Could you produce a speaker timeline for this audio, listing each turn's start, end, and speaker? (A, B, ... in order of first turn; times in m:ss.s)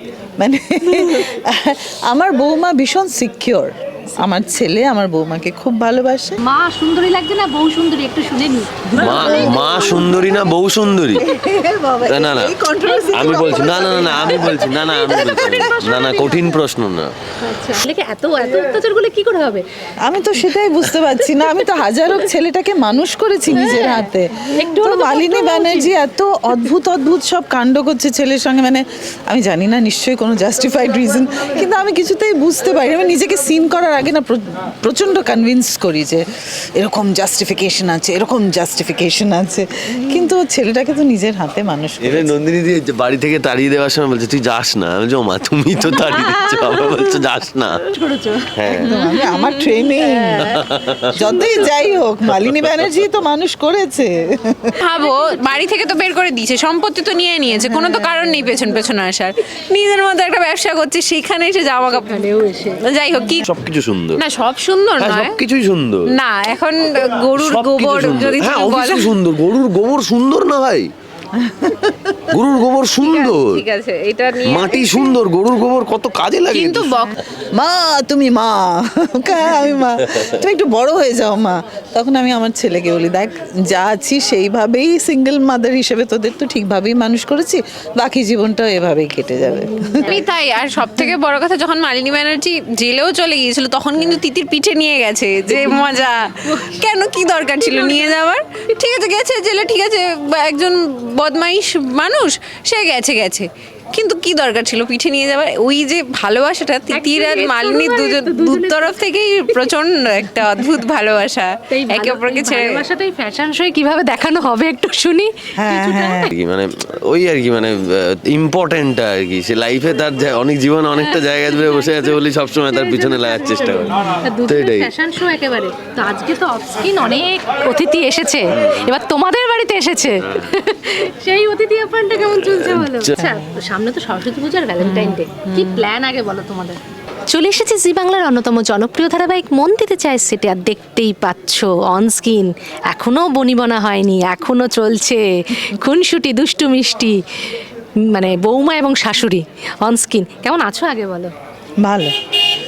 0:00.4-0:06.4 A
0:06.4-0:10.2 B
0:09.0-0:11.2 C
0:09.0-0:09.8 A
0:11.2-0:15.7 A
0:12.0-0:12.5 C
0:12.9-0:16.6 B
0:13.1-0:17.1 C
0:17.4-0:19.6 B
0:20.0-0:36.2 A
0:23.5-0:25.9 B
0:36.8-0:42.3 A
0:42.0-0:47.8 C
0:46.0-0:46.5 B
0:47.9-0:48.5 B
0:48.6-0:48.9 C
0:48.8-0:49.7 D
0:48.8-0:50.6 A
0:50.0-0:51.9 B
0:50.6-0:51.0 C
0:51.2-0:54.8 A
0:54.8-1:03.5 D
0:54.8-0:55.7 B
0:57.5-0:58.1 A
1:01.9-1:02.8 B
1:03.4-1:04.2 C
1:04.2-1:05.4 D
1:05.0-1:06.1 C
1:06.1-1:09.1 D
1:07.4-1:10.9 C
1:11.4-1:12.2 A
1:12.3-1:13.6 C
1:13.0-1:15.2 D
1:14.4-1:17.1 C
1:16.5-1:17.1 D
1:17.5-1:30.1 A
1:20.1-1:20.4 C
1:29.5-1:30.2 B
1:30.1-1:52.8 D
1:35.5-1:35.8 B
1:37.6-1:38.2 B
1:46.9-1:49.7 B
1:50.4-1:50.7 B
1:51.7-1:56.3 B
1:55.6-1:56.3 A
1:56.3-2:04.9 C
2:01.1-2:02.0 B
2:02.7-2:27.2 B
2:08.6-2:08.9 C
2:10.2-2:10.5 C
2:12.3-2:13.1 C
2:14.8-2:15.8 D
2:28.0-2:31.3 B
2:31.8-2:32.1 A